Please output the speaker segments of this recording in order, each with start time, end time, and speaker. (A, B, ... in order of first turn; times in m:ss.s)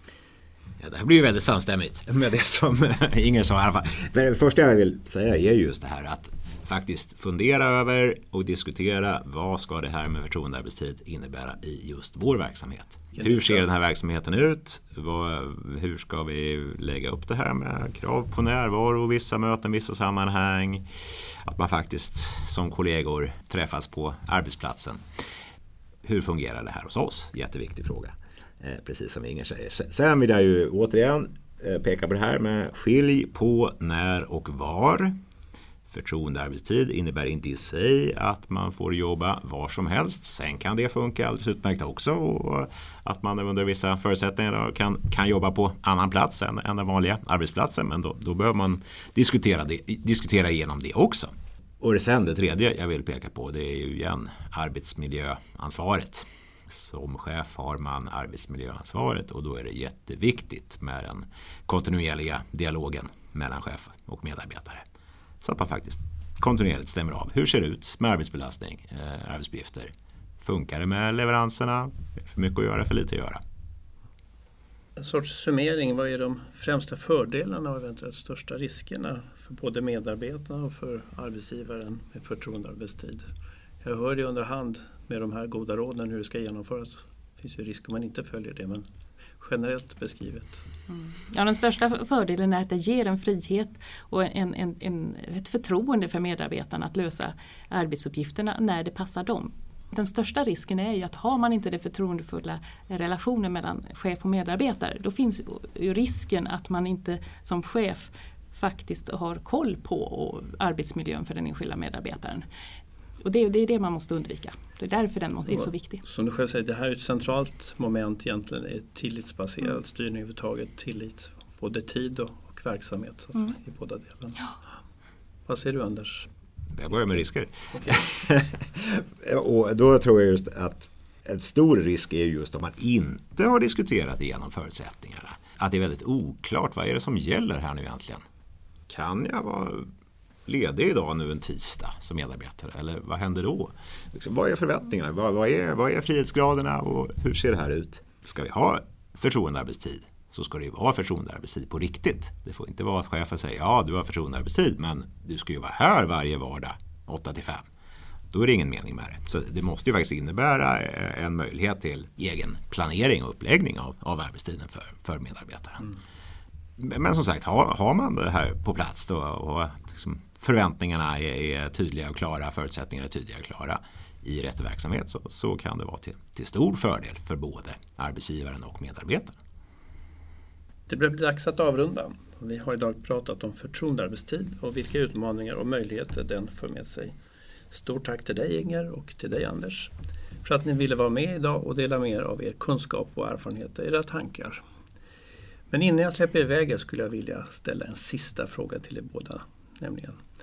0:00.8-0:25.0 A
0:13.1-0:13.6 B
0:26.0-0:35.2 A
0:35.9-1:04.8 A
1:05.4-1:13.4 A
1:15.0-1:23.2 B
1:23.8-1:28.9 B
1:29.4-1:30.6 B
1:30.9-1:52.4 C
1:53.2-1:56.0 C
1:55.5-2:04.6 B
2:05.5-2:06.3 B
2:06.7-2:18.2 A
2:18.9-2:19.9 A
2:20.5-2:37.6 A
2:38.3-2:45.9 A
2:46.8-2:59.4 A
3:00.9-3:07.1 B
3:07.7-3:09.9 B
3:10.4-3:14.6 B
3:15.7-3:20.2 B